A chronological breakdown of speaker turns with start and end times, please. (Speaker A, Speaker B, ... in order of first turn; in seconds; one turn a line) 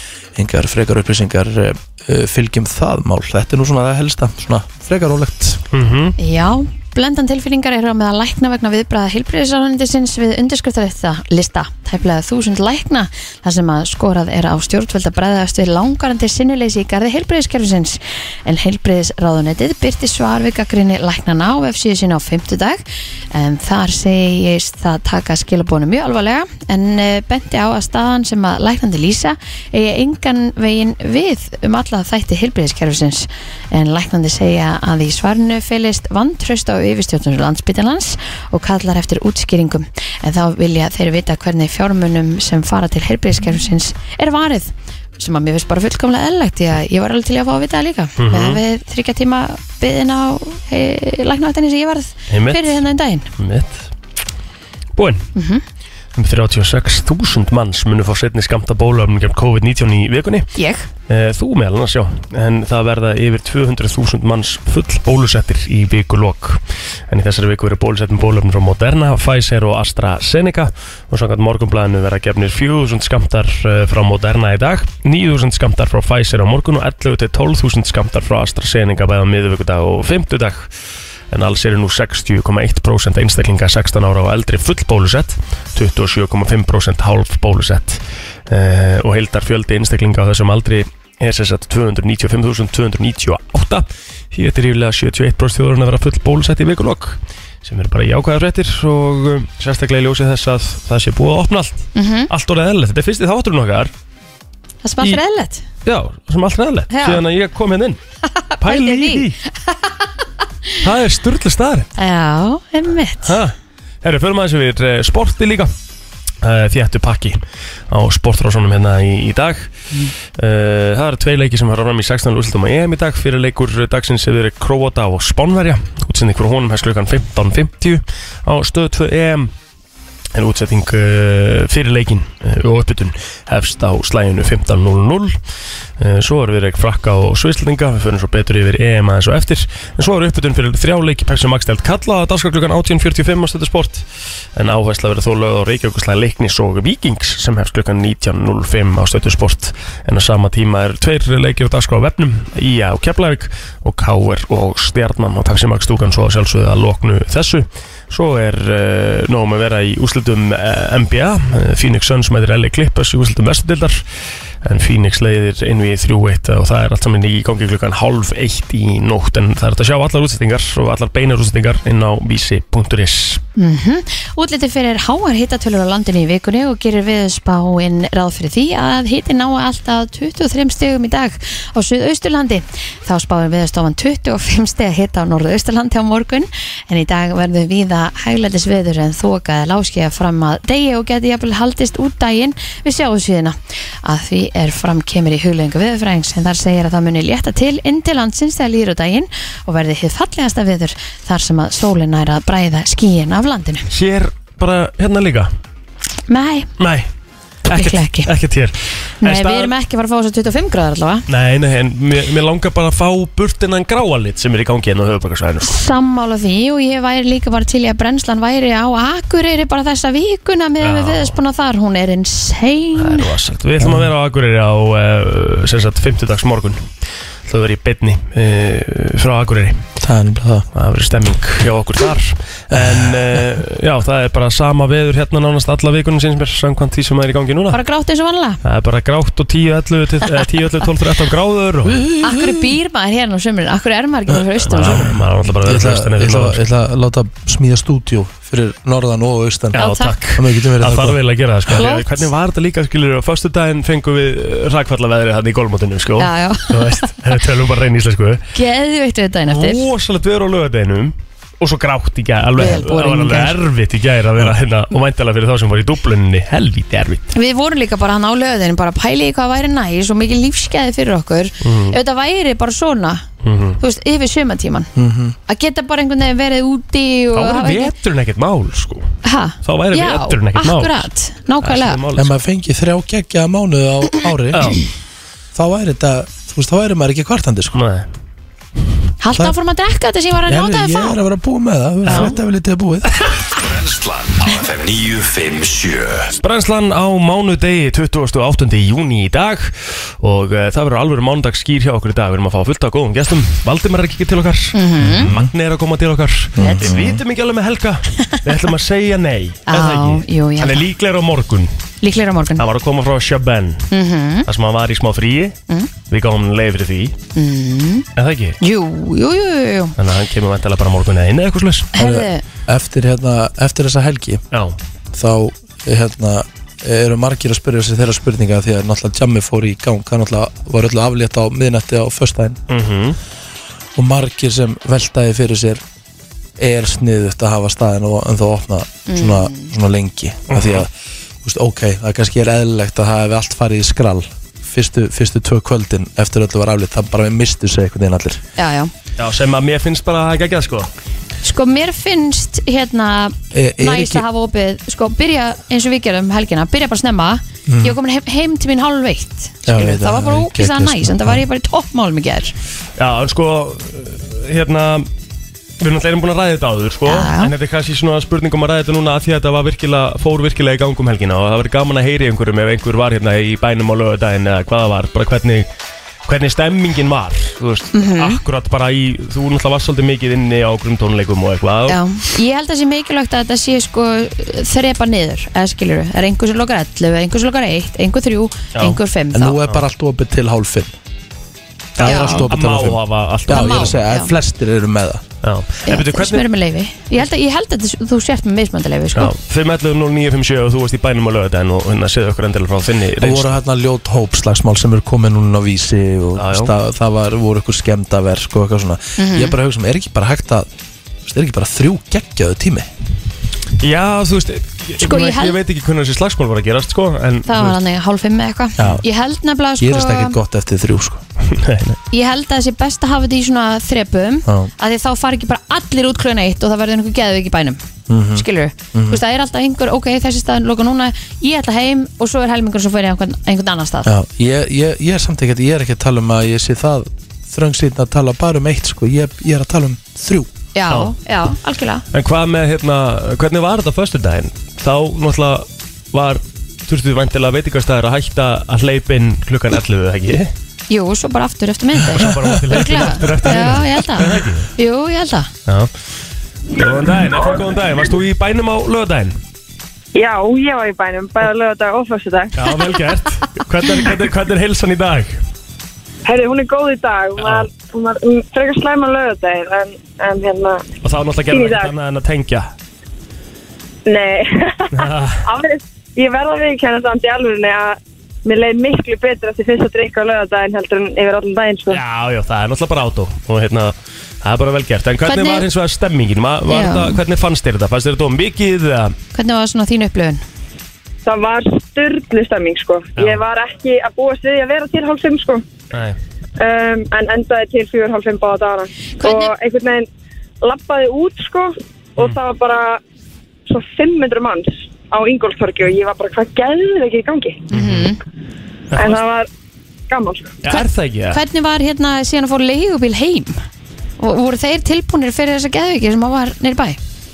Speaker A: 0.3-5.6
Speaker B: 5.7-6.2
Speaker C: 6.2-53.3
Speaker B: 48.2-48.6
Speaker B: 52.3-52.8
Speaker B: 53.4-53.9
Speaker B: 55.0-55.3
Speaker C: 55.4-55.6
Speaker B: 56.2-60.5
Speaker C: 60.6-60.9
Speaker B: 61.1-80.7
Speaker B: 81.3-103.9
Speaker C: 102.0-102.3
Speaker C: 104.8-105.6
Speaker B: 105.8-108.0
Speaker C: 106.9-107.2
Speaker C: 108.3-109.9
Speaker B: 108.6-109.4
Speaker B: 110.8-111.9
Speaker C: 112.0-113.4
Speaker B: 113.2-115.7
Speaker B: 116.4-119.7
Speaker B: 120.4-129.5
Speaker B: 130.3-135.4
Speaker B: 136.0-144.1
Speaker B: 144.6-164.0
Speaker B: 164.6-173.4
Speaker C: 173.6-203.9
Speaker B: 203.9-205.5
Speaker C: 206.3-206.7
Speaker B: 206.8-207.1
Speaker B: 207.7-209.7
Speaker C: 207.7-208.3
Speaker C: 209.2-211.2
Speaker B: 211.3-215.8
Speaker C: 215.6-223.3
Speaker B: 220.8-221.4
Speaker B: 223.0-226.9
Speaker A: 223.8-224.1
Speaker B: 227.5-229.8
Speaker A: 230.0-230.7
Speaker B: 230.7-237.8
Speaker A: 232.7-233.4
Speaker C: 237.7-238.6
Speaker B: 238.6-242.0
Speaker A: 241.9-242.7
Speaker C: 242.2-245.1
Speaker A: 244.3-251.8
Speaker B: 244.7-246.6
Speaker C: 249.8-250.2
Speaker B: 249.8-258.5
Speaker C: 251.8-252.2
Speaker C: 256.2-257.1
Speaker C: 258.5-259.8
Speaker B: 259.5-267.3
Speaker C: 262.6-263.6
Speaker C: 267.3-273.2
Speaker B: 271.6-272.0
Speaker B: 273.4-273.8
Speaker C: 273.8-274.9
Speaker A: 275.0-275.4
Speaker C: 275.5-277.9
Speaker B: 277.3-281.1
Speaker C: 279.2-282.0
Speaker B: 281.6-282.3
Speaker A: 282.1-284.8
Speaker B: 284.5-284.8
Speaker A: 285.6-287.8
Speaker B: 287.7-288.1
Speaker C: 289.2-291.2
Speaker A: 290.5-293.1
Speaker C: 292.1-292.3
Speaker D: 293.5-296.3
Speaker B: 296.4-311.7
Speaker C: 304.7-305.3
Speaker A: 305.0-305.5
Speaker A: 306.6-307.2
Speaker C: 306.6-306.9
Speaker C: 309.7-310.9
Speaker C: 312.0-312.6
Speaker B: 312.6-313.9
Speaker C: 313.9-314.5
Speaker B: 314.5-315.6
Speaker B: 316.1-317.1
Speaker C: 317.4-318.1
Speaker B: 318.2-318.6
Speaker C: 318.6-319.9
Speaker B: 320.0-321.9
Speaker C: 321.9-322.4
Speaker A: 322.0-324.4
Speaker A: 325.1-332.6
Speaker B: 332.7-333.2
Speaker A: 333.9-335.8
Speaker A: 336.6-340.9
Speaker C: 339.1-339.7
Speaker B: 340.5-340.9
Speaker A: 341.4-348.4
Speaker C: 348.6-348.9
Speaker B: 349.2-350.9
Speaker C: 351.4-362.5
Speaker A: 353.5-354.2
Speaker A: 357.7-358.0
Speaker A: 359.7-361.4
Speaker B: 363.0-365.1
Speaker B: 365.8-375.7
Speaker C: 367.1-367.5
Speaker B: 376.3-382.0
Speaker C: 377.9-378.4
Speaker C: 381.9-389.6
Speaker A: 389.3-390.9
Speaker B: 392.0-394.0
Speaker A: 392.0-395.2
Speaker C: 392.0-392.5
Speaker C: 393.5-394.3
Speaker B: 395.4-396.5
Speaker C: 395.9-399.3
Speaker B: 399.2-403.6
Speaker A: 403.2-410.7
Speaker B: 406.4-406.7
Speaker C: 409.2-409.6
Speaker A: 411.2-412.9
Speaker B: 413.8-417.8
Speaker C: 415.0-415.6
Speaker C: 417.5-420.4
Speaker A: 418.8-419.0
Speaker A: 419.8-421.2
Speaker B: 421.5-422.0
Speaker C: 422.1-427.8
Speaker A: 428.1-429.2
Speaker C: 428.3-434.1
Speaker A: 434.1-440.5
Speaker C: 440.8-442.0
Speaker B: 442.1-450.5
Speaker C: 450.9-455.5
Speaker B: 452.1-454.7
Speaker B: 456.7-459.4
Speaker E: 460.1-462.6
Speaker B: 462.6-465.4
Speaker E: 466.2-470.9
Speaker B: 467.4-467.7
Speaker B: 471.0-472.7
Speaker E: 471.5-471.9
Speaker E: 474.1-482.0
Speaker B: 474.9-475.4
Speaker B: 481.9-489.2
Speaker C: 485.2-485.7
Speaker C: 486.7-487.2
Speaker C: 489.4-490.4
Speaker E: 491.2-495.6
Speaker B: 493.2-493.4
Speaker B: 495.9-496.2
Speaker E: 496.6-500.1
Speaker C: 499.2-499.5
Speaker E: 500.6-503.0
Speaker E: 503.7-507.7
Speaker C: 507.7-508.2
Speaker B: 507.7-508.1
Speaker B: 508.9-509.2
Speaker E: 508.9-509.5
Speaker E: 510.1-510.6
Speaker B: 510.6-511.4
Speaker C: 510.7-513.6
Speaker C: 514.2-517.0